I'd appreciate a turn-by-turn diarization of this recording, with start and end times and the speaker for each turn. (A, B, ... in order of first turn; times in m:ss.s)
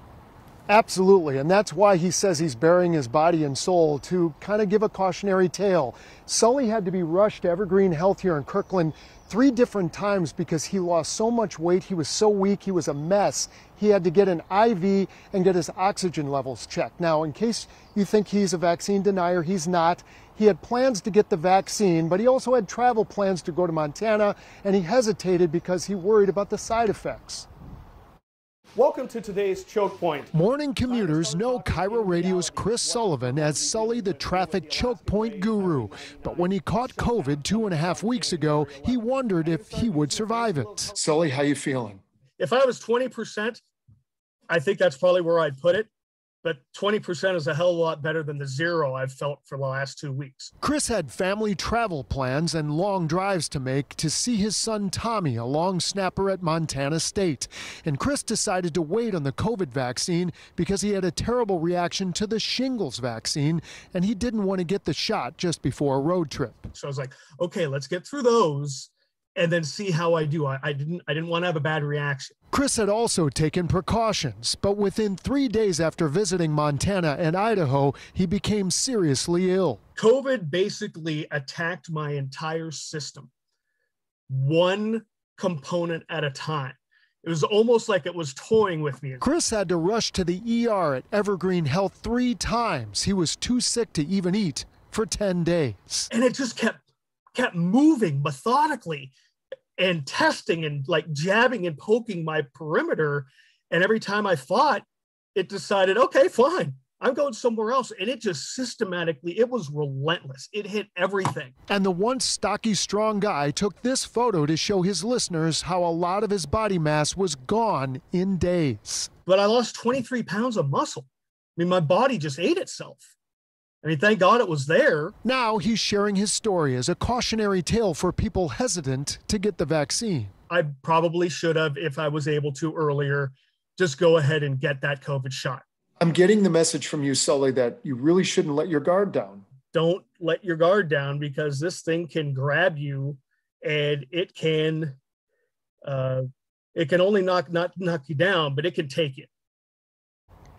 0:00.7-0:27.5 A
0:28.7-0:41.0 B
0:30.3-0:42.0 A
0:42.4-0:43.6 B
0:44.5-0:45.9 B
0:46.4-0:50.5 B
0:50.6-1:06.7 A
1:06.7-1:12.3 B
1:12.5-1:19.8 A
1:20.0-1:23.3 B
1:24.3-1:29.2 B
1:29.2-1:36.1 A
1:36.1-1:36.8 B
1:37.3-1:39.1 B
1:39.8-1:51.5 B
1:51.7-1:59.1 A
1:59.3-2:03.0 B
2:03.8-2:05.1 B
2:05.2-2:10.3 A
2:10.5-2:15.6 B
2:16.0-2:19.4 A
2:19.7-2:25.0 B
2:25.8-2:26.2 B
2:26.7-2:29.3 B